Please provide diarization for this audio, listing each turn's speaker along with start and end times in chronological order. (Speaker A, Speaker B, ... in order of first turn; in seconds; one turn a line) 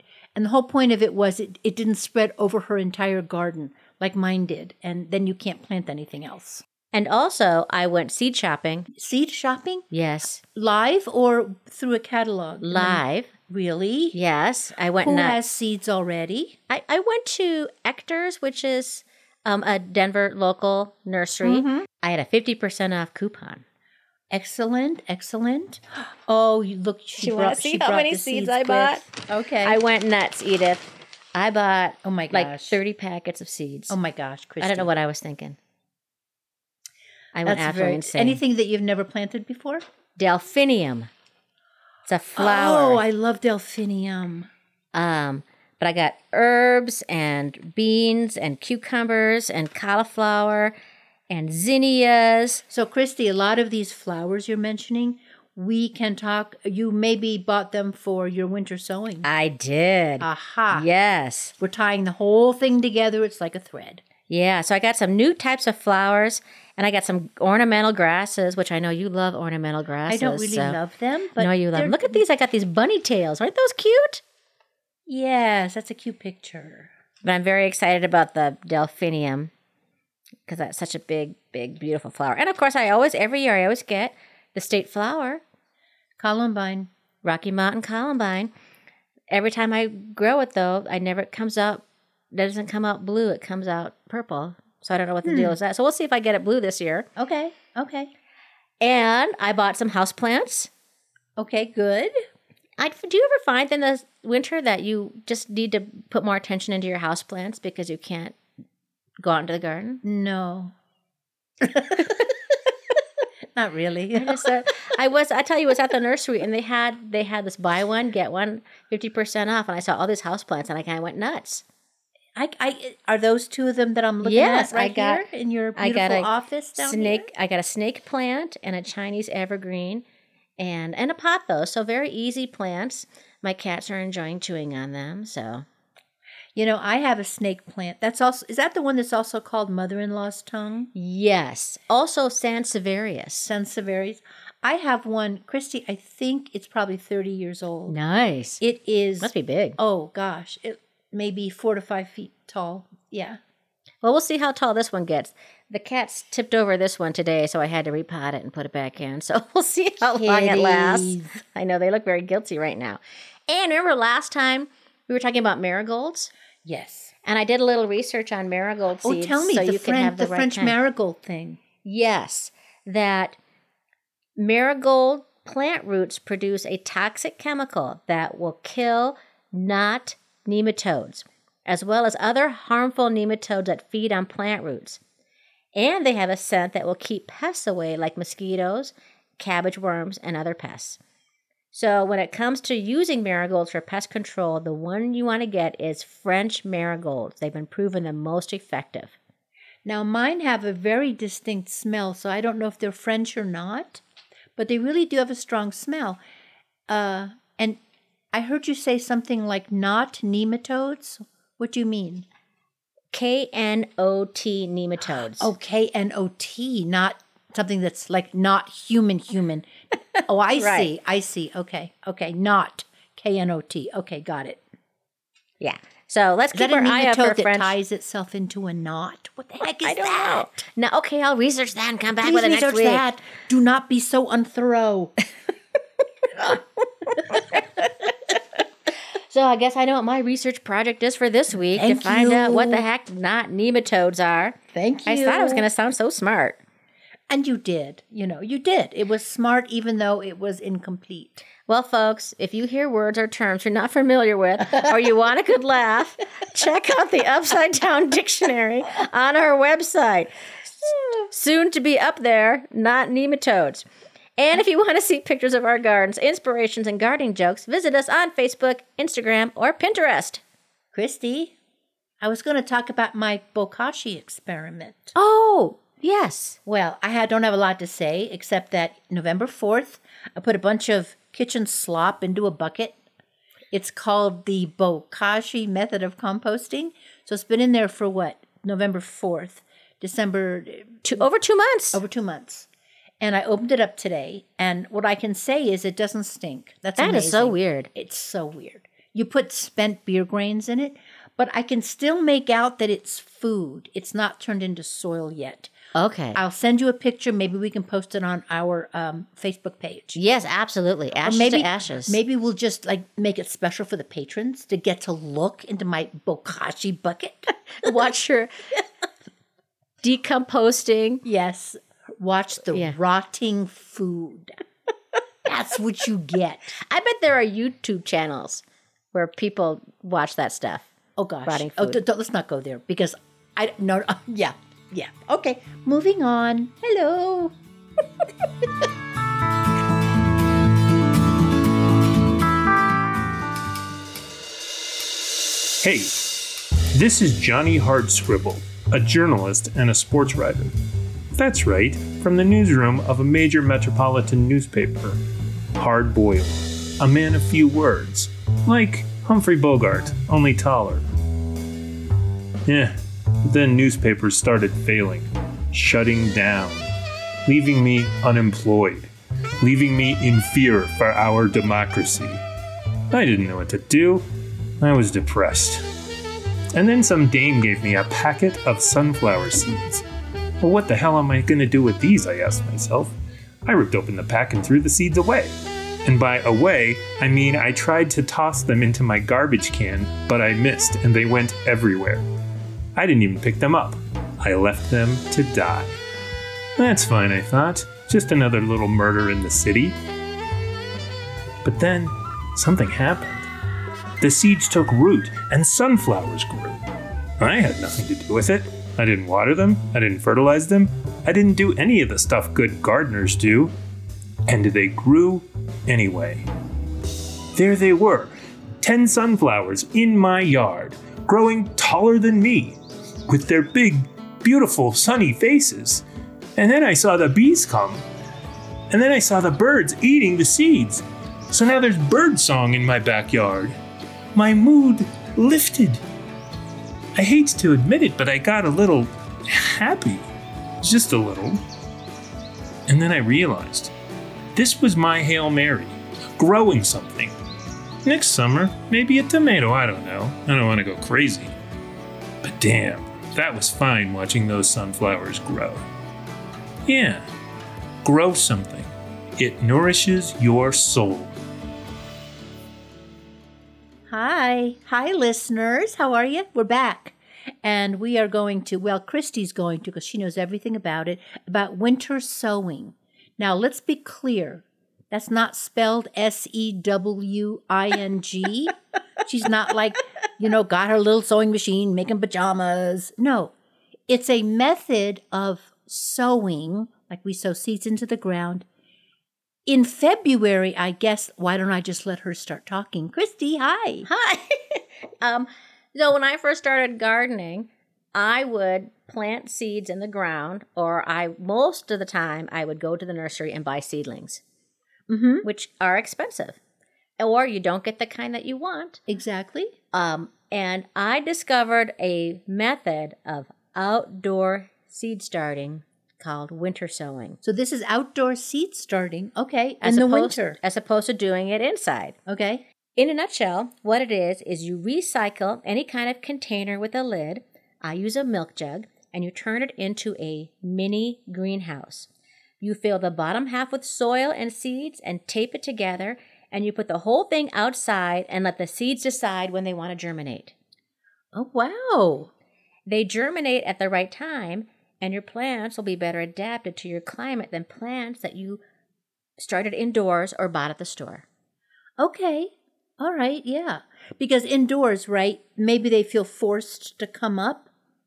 Speaker A: 0.3-6.6
Speaker B: 6.9-8.9
Speaker A: 8.9-9.9
Speaker B: 9.9-10.4
Speaker A: 10.6-14.2
Speaker B: 12.6-13.3
Speaker B: 14.1-15.4
Speaker A: 15.0-16.6
Speaker B: 16.7-23.6
Speaker A: 21.4-21.9
Speaker A: 24.3-29.8
Speaker B: 27.2-34.0
Speaker A: 32.0-32.8
Speaker A: 33.9-34.9
Speaker B: 34.6-35.6
Speaker B: 37.4-38.4
Speaker A: 37.5-39.8
Speaker B: 40.2-41.1
Speaker B: 42.1-43.0
Speaker A: 42.4-44.5
Speaker B: 44.9-50.7
Speaker B: 51.3-52.6
Speaker A: 52.7-59.3
Speaker B: 59.2-61.5
Speaker A: 60.2-60.9
Speaker A: 61.6-64.0
Speaker B: 64.3-70.8
Speaker A: 70.1-72.2
Speaker B: 71.4-74.2
Speaker A: 75.1-76.9
Speaker B: 77.2-79.5
Speaker B: 80.5-85.4
Speaker A: 86.2-86.9
Speaker B: 87.2-88.5
Speaker B: 89.3-97.1
Speaker A: 95.2-95.6
Speaker A: 97.2-98.1
Speaker B: 98.8-100.7
Speaker A: 101.4-102.1
Speaker B: 102.8-108.4
Speaker B: 109.2-110.0
Speaker A: 110.0-110.7
Speaker A: 111.6-112.3
Speaker A: 113.5-114.5
Speaker B: 114.2-121.6
Speaker A: 122.3-127.3
Speaker B: 124.2-125.2
Speaker B: 125.8-130.0
Speaker B: 130.6-135.7
Speaker A: 136.6-140.9
Speaker B: 140.9-143.5
Speaker A: 143.4-148.0
Speaker B: 147.9-148.6
Speaker A: 148.6-153.4
Speaker B: 149.2-149.8
Speaker B: 154.0-166.3
Speaker A: 160.0-161.3
Speaker A: 166.6-167.1
Speaker B: 167.2-170.8
Speaker A: 169.0-171.6
Speaker B: 171.8-173.4
Speaker B: 174.4-185.0
Speaker B: 185.8-191.0
Speaker B: 191.7-199.2
Speaker A: 199.8-204.0
Speaker A: 204.6-206.2
Speaker A: 206.9-207.8
Speaker A: 208.3-212.3
Speaker B: 213.1-215.5
Speaker A: 215.1-219.7
Speaker A: 220.3-224.6
Speaker B: 220.6-220.9
Speaker B: 225.6-227.8
Speaker A: 226.5-230.6
Speaker B: 229.7-233.0
Speaker A: 232.2-235.2
Speaker B: 237.1-238.1
Speaker B: 239.3-246.6
Speaker A: 241.7-242.8
Speaker A: 244.7-245.7
Speaker A: 247.3-251.5
Speaker B: 251.7-263.9
Speaker B: 264.4-270.4
Speaker A: 270.9-271.5
Speaker A: 272.2-275.1
Speaker B: 275.1-276.6
Speaker A: 276.7-283.0
Speaker A: 283.7-291.2
Speaker B: 291.0-292.0
Speaker A: 291.9-292.7
Speaker A: 293.2-305.7
Speaker B: 297.0-297.9
Speaker B: 305.9-306.4
Speaker A: 306.4-310.2
Speaker B: 310.1-312.2
Speaker A: 311.2-317.9
Speaker B: 317.8-318.5
Speaker B: 320.0-321.2
Speaker A: 321.2-324.6
Speaker A: 325.4-326.8
Speaker B: 326.8-330.9
Speaker A: 331.2-337.6
Speaker B: 331.5-332.0
Speaker C: 345.8-350.7
Speaker C: 351.4-355.2
Speaker C: 355.8-361.1
Speaker C: 362.7-366.9
Speaker C: 367.5-372.4
Speaker C: 373.1-374.3
Speaker C: 374.8-375.9
Speaker C: 376.7-380.0
Speaker C: 380.6-392.3
Speaker C: 392.9-395.9
Speaker C: 396.8-400.0
Speaker C: 401.6-403.5
Speaker C: 404.2-406.8
Speaker C: 407.4-413.7
Speaker C: 414.5-416.5
Speaker C: 417.6-426.0
Speaker C: 426.6-428.1
Speaker C: 428.9-433.8
Speaker C: 434.4-436.0
Speaker C: 437.1-440.3
Speaker C: 440.8-441.6
Speaker C: 442.9-443.9
Speaker C: 444.6-447.3
Speaker C: 448.0-451.6
Speaker C: 452.4-455.8
Speaker C: 456.9-457.3
Speaker C: 458.0-461.3
Speaker A: 464.1-483.5
Speaker A: 484.1-488.7
Speaker A: 489.7-494.1
Speaker B: 494.1-504.4
Speaker A: 505.1-505.5
Speaker B: 505.4-506.6
Speaker B: 507.2-509.0
Speaker A: 509.1-509.7
Speaker B: 509.9-517.4
Speaker A: 517.4-520.6
Speaker B: 519.8-522.2
Speaker A: 522.3-522.6
Speaker B: 523.0-532.1
Speaker B: 532.6-540.5
Speaker A: 541.3-542.3
Speaker B: 542.9-548.6
Speaker B: 549.4-551.3
Speaker A: 552.0-557.7